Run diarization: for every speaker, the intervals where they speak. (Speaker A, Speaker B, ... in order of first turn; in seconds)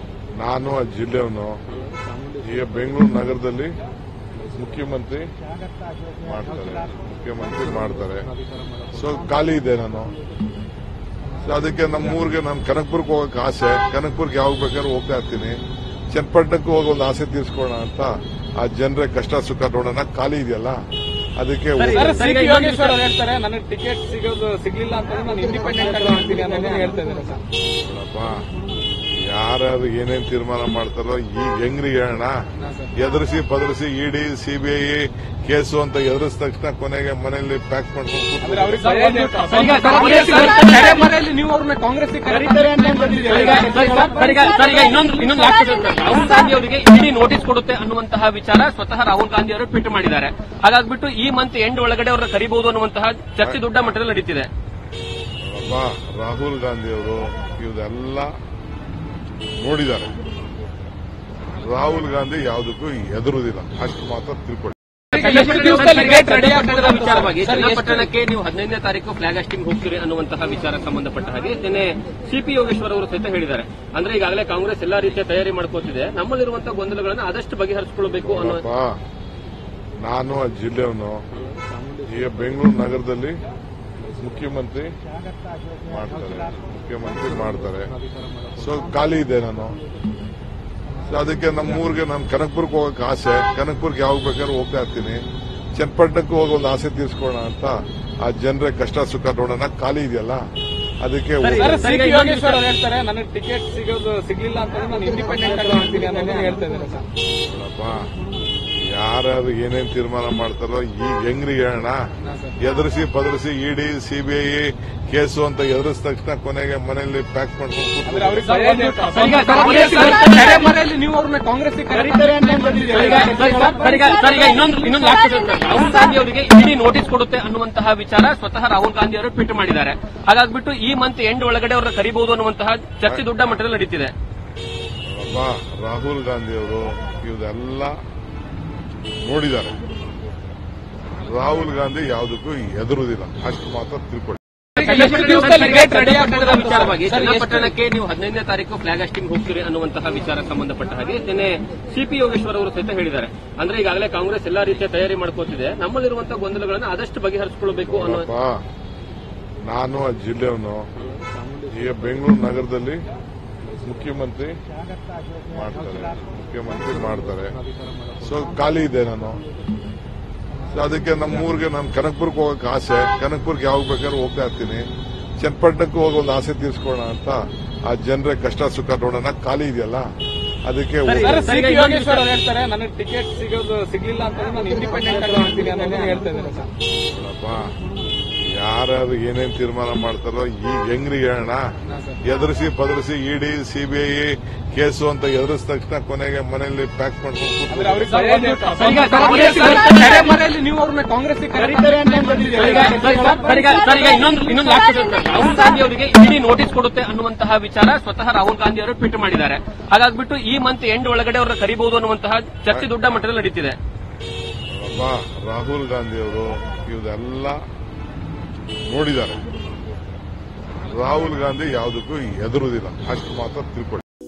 Speaker A: 0.4-1.5, 2.4-3.7, 4.4-5.3, 6.2-8.3, 8.9-10.1, 11.4-15.5, 16.1-20.8, 21.4-22.2, 27.8-28.4, 29.1-32.3, 33.0-39.2, 55.5-58.3, 59.6-60.1, 61.6-64.8, 78.2-78.9, 80.0-81.2, 82.0-83.4, 84.1-84.9, 85.9-87.9, 88.5-89.8, 91.1-95.2, 95.8-100.4, 101.0-101.8, 107.4-108.1, 108.9-112.0, 112.6-118.7, 135.1-137.9, 139.2-139.8, 141.2-144.4, 157.9-158.6, 159.7-160.8, 161.7-163.0, 163.7-164.5, 165.5-167.6, 168.2-169.4, 170.7-174.8, 175.4-180.1, 180.7-181.4, 187.1-187.7, 188.6-191.6, 192.2-198.2, 214.7-217.5, 218.9-219.4, 220.9-224.0
Speaker B: 21.8-23.0, 39.5-41.0, 43.2-54.5, 65.1-78.6, 101.4-102.6, 119.1-120.4, 122.9-134.1, 144.8-158.3, 181.1-182.2, 198.8-200.1, 202.5-213.8
Speaker C: 21.9-27.4, 32.5-32.9, 38.4-44.4, 65.1-68.0, 101.6-107.0, 112.2-112.5, 118.1-124.2, 144.8-147.7, 181.2-186.7, 191.8-192.2, 197.7-203.6